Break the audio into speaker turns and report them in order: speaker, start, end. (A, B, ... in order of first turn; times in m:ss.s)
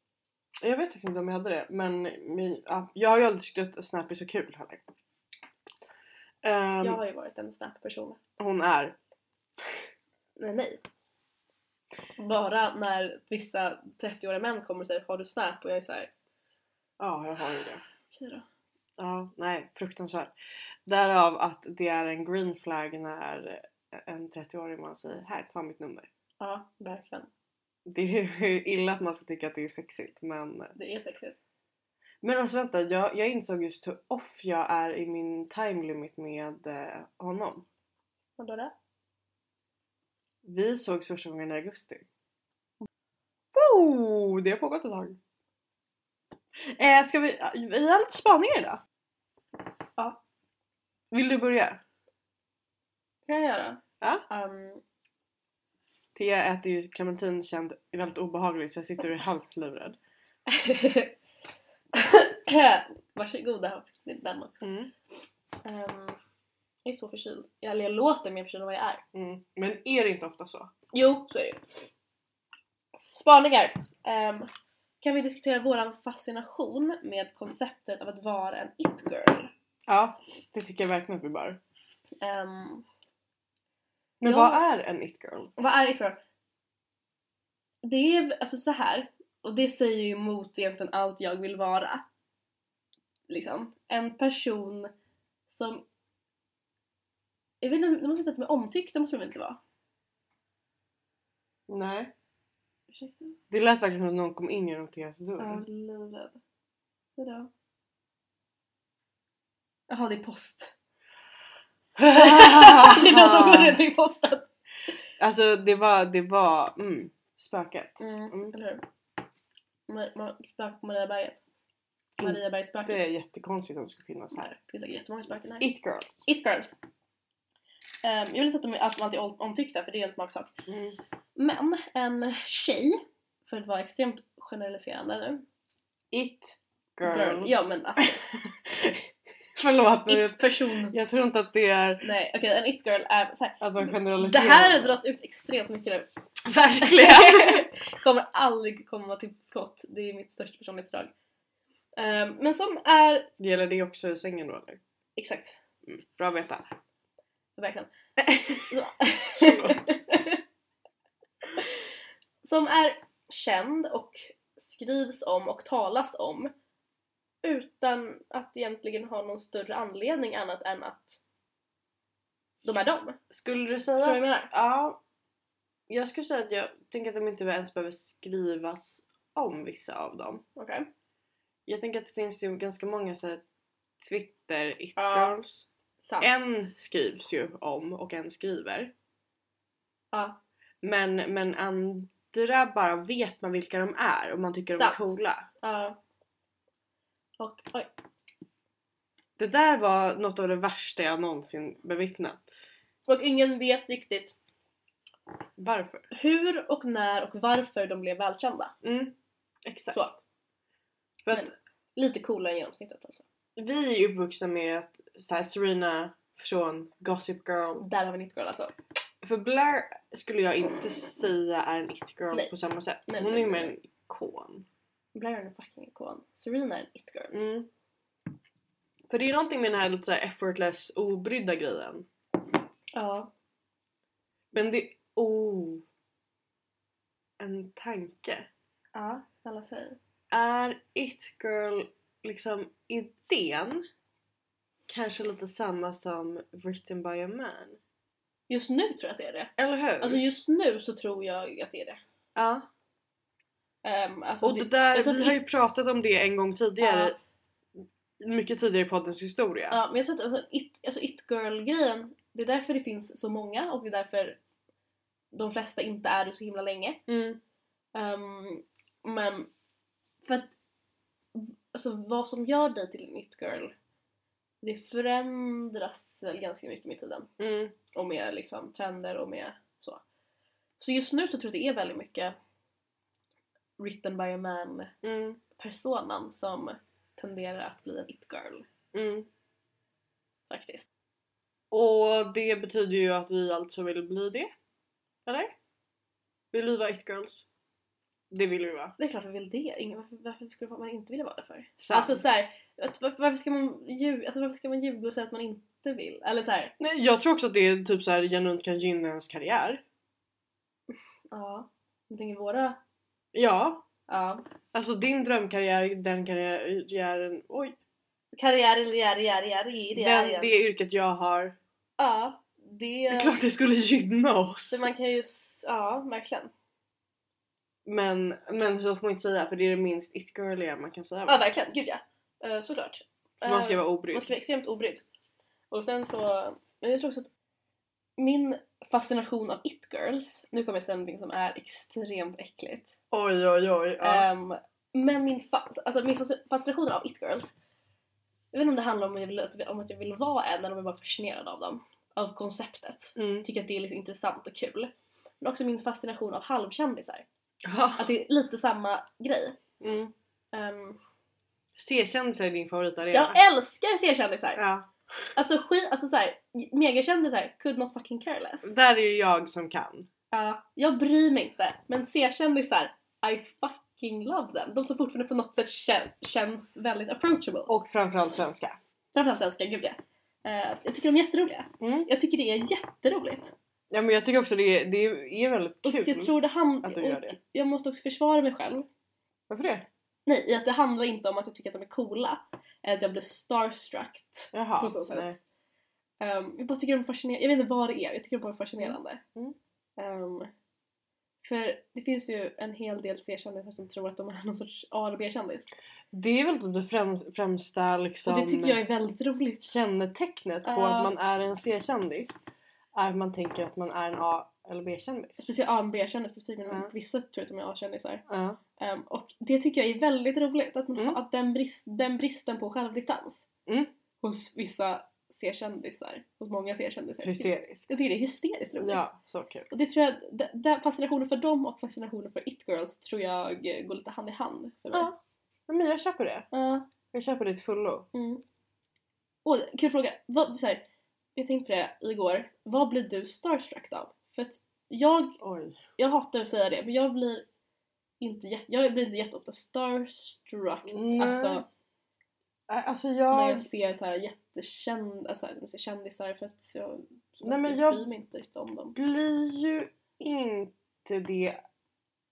0:00.6-0:04.8 A
0:06.4-0:07.0 A
0:06.8-0:08.2 B
0:08.4-0:09.0 A
0:10.4-0:10.8 B
0:12.2-0:16.1 B
0:17.0-0:17.8 A
0:18.1-0:18.5 B
0:19.0-0:20.3 A
0:20.9-0:26.1 A
0:26.4-0:27.3 B
0:27.9-0:30.8 A
0:30.8-0:31.4 B
0:32.2-0:37.6 A
0:38.4-0:38.7 B
0:40.4-0:42.1 A
0:43.5-0:45.2 A
0:46.7-0:48.8 A
0:51.1-0:51.8 A
0:53.3-0:54.8 B
0:56.2-1:00.0 A
1:00.5-1:01.2 B
1:01.9-1:04.7 B
1:04.6-1:04.9 A
1:05.6-1:06.2 B
1:06.8-1:09.0 B
1:09.1-1:10.7 A
1:10.9-1:11.9 B
1:13.1-1:14.5 B
1:15.0-1:19.5 B
1:19.9-1:21.6 A
1:22.2-1:22.8 B
1:24.2-1:25.5 A
1:24.2-1:24.6 B
1:25.6-1:26.2 B
1:27.8-1:32.0 B
1:33.3-1:34.9 B
1:35.5-1:35.9 B
1:37.6-1:39.6 B
1:41.7-1:42.1 A
1:42.9-1:43.4 B
1:43.5-1:45.6 A
1:45.4-1:46.4 B
1:47.2-1:47.5 B
1:49.9-1:50.7 B
1:52.0-1:53.8 A
1:52.1-1:54.5 B
1:55.2-1:58.5 A
1:58.0-1:58.8 B
1:59.9-2:01.4 B
2:02.2-2:03.0 B
2:02.2-2:04.6 A
2:04.6-2:05.7 B
2:05.6-2:06.2 A
2:06.3-2:06.8 B
2:08.0-2:10.5 B
2:10.7-2:11.0 A
2:11.4-2:15.4 B
2:16.1-2:19.1 A
2:17.0-2:18.2 B
2:19.6-2:22.1 A
2:20.1-2:21.0 B
2:22.0-2:26.1 B
2:23.6-2:25.0 A
2:26.4-2:27.7 A
2:26.8-2:31.1 B
2:32.0-2:33.3 B
2:33.4-2:34.8 A
2:35.2-2:35.6 B
2:35.9-2:36.7 A
2:37.6-2:37.9 B
2:38.2-2:40.0 A
2:38.7-2:40.4 B
2:41.6-2:41.8 B
2:42.4-2:46.5 B
2:47.4-2:51.2 B
2:52.6-2:53.2 B
2:53.3-2:55.0 A
2:54.0-2:54.5 B
2:55.9-3:00.4 A
3:00.6-3:00.9 B
3:01.7-3:03.4 A
3:04.0-3:05.7 A
3:05.0-3:05.4 B
3:06.0-3:06.3 B
3:06.2-3:08.9 A
3:10.1-3:10.4 B
3:10.8-3:15.5 A
3:14.7-3:16.0 B
3:17.4-3:17.9 B
3:19.4-3:22.4 A
3:23.1-3:24.4 B
3:25.6-3:26.1 A
3:26.1-3:28.7 B
3:28.8-3:30.0 A
3:29.9-3:30.2 B
3:31.2-3:31.5 A
3:31.3-3:33.2 B
3:33.6-3:37.9 A
3:37.8-3:38.8 B
3:39.2-3:44.7 A
3:43.1-3:43.7 B
3:45.2-3:47.3 B
3:47.3-3:47.7 A
3:49.1-3:52.1 A
3:52.9-3:53.3 B
3:54.5-3:55.8 A
3:57.4-3:58.5 A
3:58.9-4:00.0 B
4:00.3-4:03.8 A
4:04.9-4:07.8 A
4:08.5-4:12.0 B
4:09.6-4:10.2 A
4:12.4-4:12.7 A
4:13.8-4:15.7 B
4:14.4-4:17.2 A
4:16.8-4:17.2 B
4:18.2-4:19.8 A
4:19.7-4:24.4 B
4:25.3-4:27.0 B
4:27.1-4:27.4 A
4:28.0-4:29.5 B
4:30.2-4:30.5 B
4:31.3-4:33.7 B
4:34.6-4:37.3 B
4:37.4-4:37.8 A
4:37.9-4:40.0 B
4:40.8-4:42.3 B
4:43.8-4:44.9 B
4:45.0-4:45.4 A
4:45.5-4:48.7 B
4:48.9-4:49.3 A
4:50.5-4:50.9 B
4:51.7-4:54.5 A
4:55.3-4:55.5 A
4:56.5-4:57.5 A
4:58.3-4:59.0 A
4:59.0-5:06.7 B
5:01.8-5:02.2 A
5:06.8-5:09.8 A
5:10.9-5:12.8 B
5:13.3-5:13.9 A
5:14.1-5:14.4 B
5:14.7-5:17.8 A
5:18.3-5:20.5 B
5:19.9-5:21.6 A
5:22.0-5:23.4 B
5:23.1-5:24.8 A
5:24.7-5:26.5 B
5:27.9-5:31.4 A
5:31.3-5:35.0 B
5:33.4-5:34.3 A
5:35.7-5:37.3 B
5:38.2-5:43.0 B
5:43.1-5:44.3 A
5:44.0-5:47.5 B
5:48.5-5:57.2 B
5:53.2-5:53.5 A
5:57.6-5:58.1 A
5:58.0-5:59.6 B
5:59.8-6:00.1 A
6:00.5-6:01.0 B
6:01.8-6:03.4 A
6:03.1-6:04.6 B
6:04.6-6:04.9 A
6:05.4-6:08.7 B
6:08.6-6:10.1 A
6:10.3-6:17.7 B
6:17.7-6:18.8 A
6:19.1-6:23.5 B
6:21.8-6:22.1 A
6:23.9-6:27.4 A
6:25.8-6:28.9 B
6:29.5-6:29.9 A
6:30.3-6:35.3 B
6:34.5-6:35.4 A
6:36.2-6:39.2 B
6:38.8-6:39.6 A
6:40.0-6:40.5 B
6:41.4-6:45.7 B
6:46.1-6:48.8 A
6:48.3-6:49.7 B
6:49.6-6:52.4 A
6:50.6-6:51.1 B
6:53.0-6:55.4 A
6:55.4-6:58.2 B
6:58.3-6:58.6 A
6:58.8-7:03.5 B
7:04.2-7:09.0 B
7:07.2-7:07.9 A
7:08.8-7:09.7 A
7:09.7-7:15.1 B
7:14.9-7:16.5 A
7:16.5-7:16.9 B
7:17.1-7:18.1 A
7:18.1-7:18.4 B
7:19.4-7:20.8 B
7:21.4-7:25.4 B
7:25.4-7:25.8 A
7:26.0-7:27.5 B
7:28.2-7:31.7 B
7:30.9-7:31.6 A
7:32.7-7:33.7 A
7:33.3-7:39.0 B
7:37.4-7:38.0 A
7:38.9-7:41.6 A